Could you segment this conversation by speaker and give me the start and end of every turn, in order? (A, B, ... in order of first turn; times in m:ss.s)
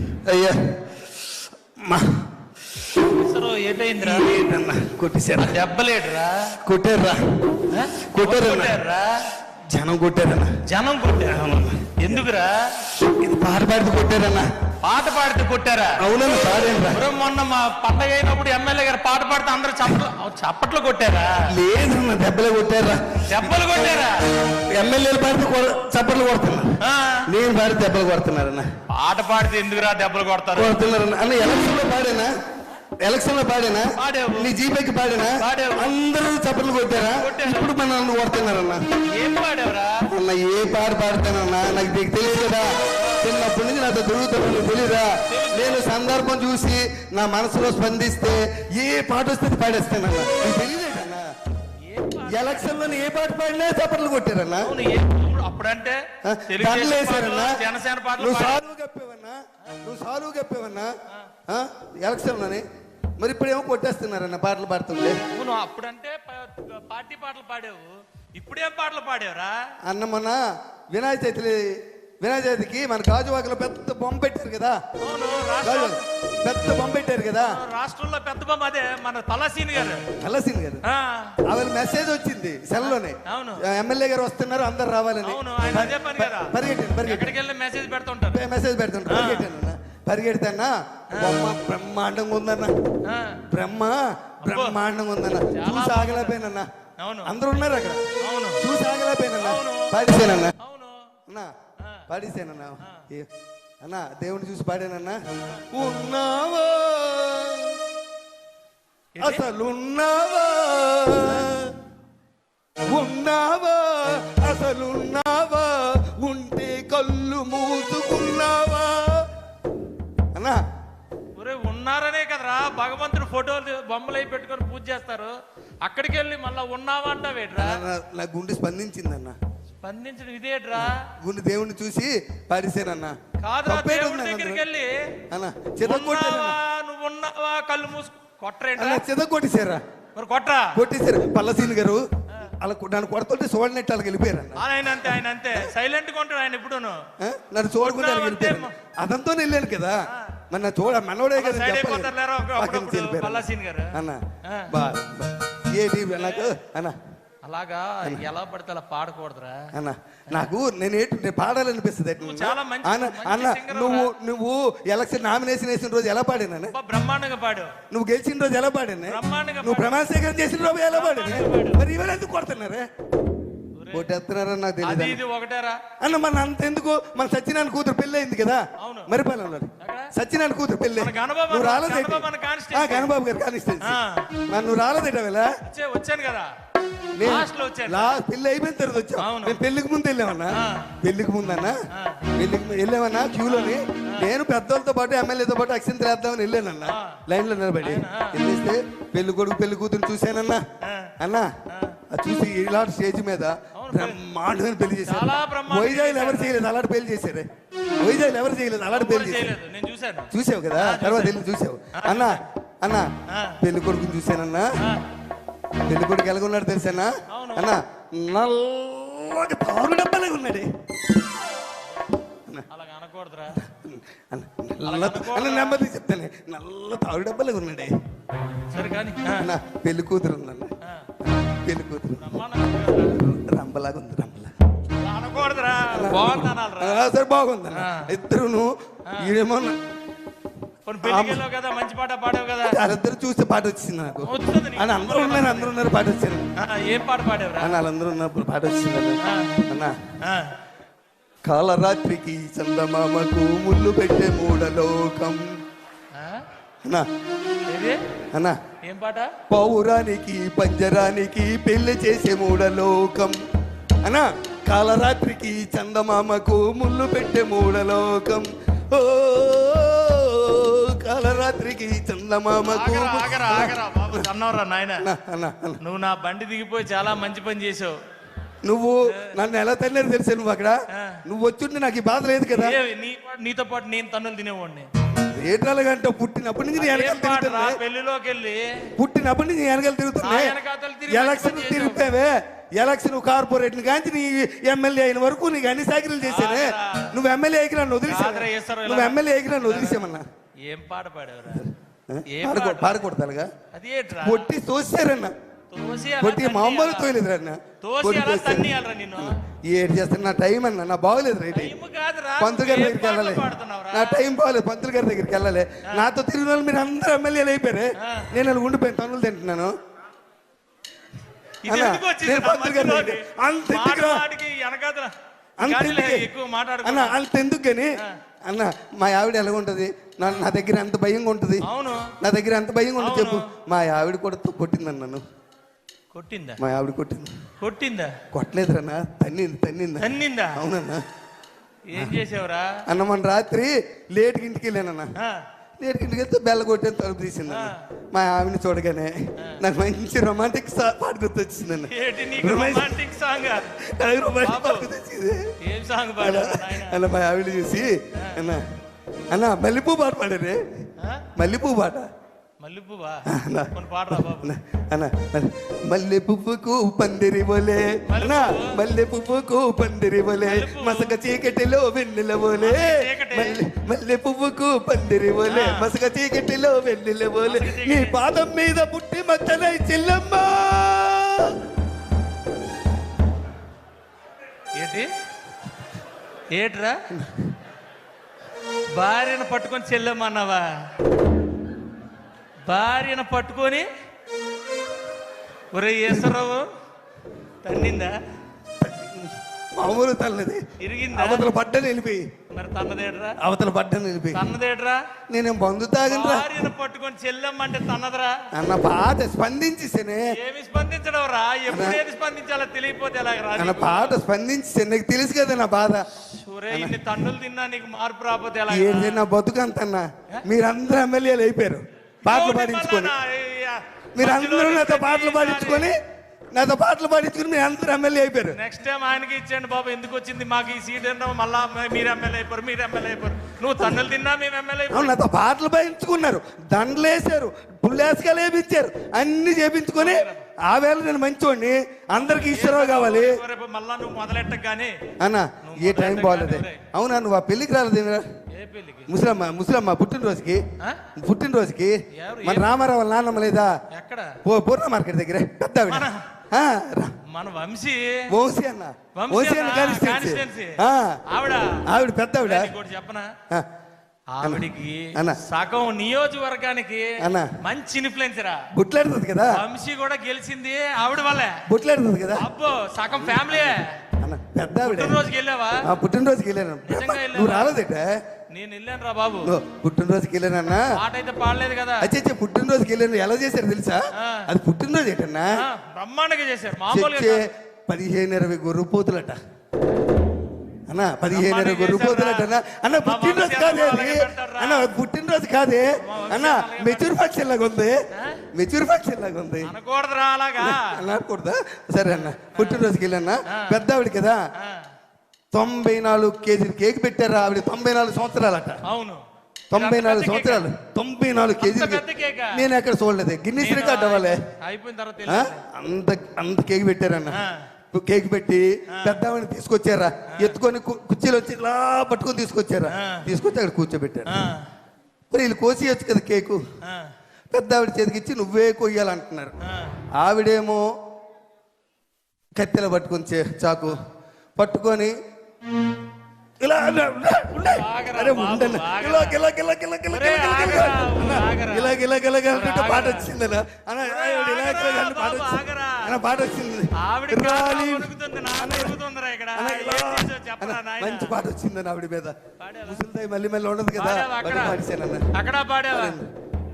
0:00.2-0:00.6 A
0:01.8-0:02.2 A
0:03.0-0:04.4 B
0:04.0-0:05.5 A
0:05.5-0:06.5 B
0:06.6-0:07.2 A
0:07.7-0:09.1 B
0:08.1-0:08.7 A
0:09.7-0:10.5 A
0:10.7-0:11.4 B
0:11.3-0:12.2 A
0:12.0-0:12.5 B
0:13.1-0:14.4 A
0:14.8-0:16.0 B
0:16.0-0:17.0 A
0:16.9-0:21.5 B
0:21.4-0:24.0 A
0:23.3-0:24.2 B
0:24.7-0:26.7 A
0:26.8-0:27.3 B
0:27.3-0:28.7 A
0:28.9-0:30.9 B
0:30.5-0:32.3 A
0:33.0-0:38.8 A
0:34.0-0:34.5 B
0:35.4-0:35.9 B
0:37.2-0:37.7 B
0:39.1-0:40.1 B
0:40.1-0:51.3 A
0:43.0-0:43.3 B
0:45.3-0:45.8 B
0:51.8-0:52.8 B
0:52.2-0:54.7 A
0:54.6-0:58.6 B
0:56.2-0:57.6 A
0:58.2-1:00.9 A
1:01.5-1:02.6 A
1:03.2-1:05.2 A
1:05.3-1:09.5 B
1:09.8-1:10.4 A
1:10.9-1:14.8 A
1:15.0-1:16.0 B
1:15.6-1:17.6 A
1:17.4-1:20.0 B
1:20.2-1:20.8 A
1:20.8-1:21.3 B
1:21.5-1:27.3 A
1:22.8-1:23.6 B
1:25.2-1:28.4 B
1:28.3-1:32.8 A
1:29.1-1:29.5 B
1:31.1-1:31.5 B
1:33.0-1:33.4 B
1:33.5-1:36.7 A
1:34.4-1:34.8 B
1:35.5-1:36.4 B
1:37.0-1:37.3 B
1:37.2-1:40.5 A
1:38.2-1:38.6 B
1:39.4-1:41.1 B
1:41.8-1:42.1 B
1:42.1-1:43.3 A
1:43.8-1:47.8 A
1:49.2-1:49.4 B
1:49.2-1:51.7 A
1:51.2-1:51.5 B
1:52.9-1:59.2 A
2:00.3-2:00.6 A
2:01.4-2:07.8 B
2:07.5-2:09.4 A
2:09.8-2:11.0 B
2:10.7-2:14.6 A
2:13.4-2:14.9 B
2:15.3-2:16.6 A
2:15.8-2:19.0 B
2:18.8-2:19.8 A
2:20.2-2:20.8 B
2:20.7-2:22.0 A
2:22.6-2:25.7 A
2:24.6-2:27.0 B
2:27.2-2:30.0 A
2:27.8-2:28.7 B
2:30.1-2:30.4 B
2:30.5-2:37.0 A
2:31.3-2:34.7 B
2:36.1-2:36.5 B
2:37.4-2:39.6 B
2:39.7-2:46.7 A
2:42.2-2:44.1 B
2:46.7-2:47.7 B
2:47.9-2:52.9 A
2:49.1-2:50.0 B
2:50.9-2:51.8 B
2:53.8-2:54.1 B
2:53.9-2:55.2 A
2:54.8-2:55.8 B
2:56.0-3:04.0 A
2:58.8-2:59.1 B
2:59.8-3:00.1 B
3:01.0-3:03.1 B
3:03.8-3:04.3 B
3:04.5-3:05.5 A
3:05.6-3:06.5 B
3:07.2-3:11.8 A
3:07.2-3:08.2 B
3:09.2-3:09.6 B
3:10.5-3:10.9 B
3:11.6-3:12.3 B
3:12.4-3:20.6 A
3:13.4-3:14.3 B
3:16.8-3:17.2 B
3:17.8-3:18.4 B
3:20.8-3:21.1 B
3:21.2-3:21.5 A
3:21.7-3:22.0 B
3:22.1-3:27.4 A
3:23.7-3:24.2 B
3:25.0-3:26.6 B
3:28.0-3:29.5 A
3:28.9-3:31.4 B
3:30.3-3:33.1 A
3:31.9-3:32.4 B
3:33.3-3:33.6 B
3:33.6-3:34.7 A
3:35.8-3:40.7 A
3:37.3-3:37.8 B
3:42.7-3:43.6 B
3:43.6-3:47.9 A
3:44.8-3:45.8 B
3:48.7-3:49.5 B
3:49.4-3:50.7 A
3:51.2-3:52.2 A
3:52.2-3:53.2 B
3:53.1-3:54.5 A
3:55.0-3:57.0 B
3:55.9-3:59.8 A
3:57.7-3:58.1 B
4:00.8-4:02.8 B
4:01.0-4:01.4 A
4:02.6-4:06.5 A
4:04.2-4:05.7 B
4:06.6-4:07.8 B
4:07.6-4:09.9 A
4:09.2-4:09.6 B
4:10.2-4:10.5 B
4:11.4-4:15.5 A
4:16.1-4:16.4 B
4:17.7-4:18.0 B
4:18.8-4:19.3 B
4:19.5-4:23.3 A
4:24.0-4:34.2 A
4:32.6-4:35.0 B
4:35.0-4:35.8 A
4:35.8-4:37.9 B
4:38.6-4:42.8 A
4:39.1-4:39.4 B
4:42.5-4:44.9 B
4:45.3-4:47.8 A
4:46.8-4:48.6 B
4:49.0-4:50.5 A
4:50.2-4:52.1 B
4:51.1-5:00.3 A
4:56.2-4:57.1 B
4:58.0-5:00.0 B
5:00.6-5:01.7 B
5:01.5-5:03.5 A
5:02.3-5:03.0 B
5:03.7-5:04.5 B
5:04.2-5:05.3 A
5:05.7-5:07.1 B
5:06.2-5:11.7 A
5:07.8-5:09.3 B
5:11.5-5:14.2 B
5:12.4-5:19.7 A
5:18.0-5:18.3 B
5:21.6-5:27.2 B
5:21.6-5:24.2 A
5:25.6-5:26.3 A
5:26.8-5:27.9 A
5:28.4-5:31.7 A
5:31.6-5:32.1 B
5:32.2-5:35.2 A
5:33.0-5:33.5 B
5:36.1-5:36.6 B
5:36.6-5:37.3 A
5:37.6-5:38.2 B
5:38.3-5:41.0 A
5:40.0-5:40.6 B
5:41.9-5:42.8 B
5:42.9-5:45.1 A
5:45.8-5:53.0 A
5:47.5-5:47.8 B
5:51.9-5:53.6 B
5:53.7-5:55.5 A
5:54.4-5:54.9 B
5:55.6-5:57.0 B
5:56.2-5:58.6 A
5:58.2-5:58.4 B
5:59.3-6:00.6 A
6:01.0-6:01.2 B
6:01.4-6:02.1 A
6:02.6-6:04.5 B
6:03.3-6:21.5 A
6:08.1-6:08.8 B
6:10.4-6:11.2 B
6:12.6-6:13.6 B
6:15.4-6:15.9 B
6:17.4-6:18.2 B
6:24.8-6:25.0 B
6:26.5-6:26.9 B
6:27.1-6:27.4 A
6:28.9-6:30.7 B
6:32.6-6:33.8 B
6:35.7-6:36.6 B
6:37.6-6:38.1 B
6:38.8-6:40.6 A
6:40.8-6:41.5 B
6:41.1-6:42.2 A
6:42.5-6:43.4 B
6:43.4-6:44.4 A
6:44.3-6:45.0 B
6:45.3-6:46.5 A
6:46.0-6:48.4 B
6:48.5-6:50.3 A
6:50.3-6:54.2 B
6:51.7-6:52.0 A
6:53.5-6:56.0 A
6:56.2-6:59.2 B
6:56.7-6:57.2 A
6:58.7-7:03.1 A
7:02.2-7:05.9 B
7:04.2-7:06.0 A
7:06.5-7:08.6 A
7:08.5-7:15.2 B
7:13.8-7:14.0 A
7:14.9-7:23.4 A
7:20.0-7:20.4 B
7:22.1-7:24.9 B
7:25.2-7:28.2 A
7:25.6-7:26.8 B
7:28.5-7:29.1 B
7:29.1-7:30.6 A
7:31.2-7:33.7 A
7:32.2-7:32.7 B
7:33.9-7:34.4 B
7:34.4-7:37.2 A
7:35.9-7:36.2 B
7:37.3-7:38.2 B
7:38.3-7:41.2 A
7:39.1-7:40.8 B
7:41.3-7:41.8 B
7:41.9-7:42.7 A
7:42.4-7:43.3 B
7:44.3-7:48.6 B
7:44.4-7:45.4 A
7:47.2-7:47.5 A
7:48.7-7:49.6 A
7:49.5-7:51.6 B
7:51.7-7:52.4 A
7:52.4-7:53.9 B
7:53.1-7:55.2 A
7:54.8-7:55.8 B
7:55.8-7:58.0 A
7:56.8-7:57.8 B
7:58.5-7:59.5 B
7:59.4-8:00.9 A
8:00.9-8:02.1 B
8:02.0-8:05.6 A
8:04.2-8:04.5 B
8:05.6-8:07.4 B
8:06.9-8:09.4 A
8:10.9-8:18.0 A
8:11.3-8:14.9 B
8:16.0-8:17.2 B
8:18.1-8:18.4 B
8:18.5-8:19.7 A
8:19.6-8:21.0 B
8:20.6-8:24.4 A
8:22.0-8:22.8 B
8:23.5-8:23.8 B
8:24.6-8:24.9 B
8:25.5-8:28.8 A
8:28.8-8:30.7 B
8:29.7-8:34.4 A
8:31.6-8:32.6 B
8:33.6-8:35.6 B
8:35.2-8:37.4 A
8:37.3-8:37.6 B
8:37.9-8:44.3 A
8:38.9-8:39.2 B
8:42.9-8:43.3 B
8:44.3-8:44.6 B
8:45.3-8:46.6 A
8:46.8-8:47.1 B
8:47.5-8:49.5 A
8:49.6-8:49.9 B
8:50.2-8:50.8 A
8:52.6-8:54.0 A
8:54.6-8:55.1 A
8:56.6-9:09.0 A
8:57.5-8:59.4 B
9:00.1-9:01.9 B
9:02.5-9:03.3 B
9:04.0-9:06.1 B
9:07.0-9:11.4 B
9:09.5-9:15.3 A
9:12.6-9:13.0 B
9:13.9-9:14.8 B
9:15.3-9:16.2 B
9:15.9-9:16.3 A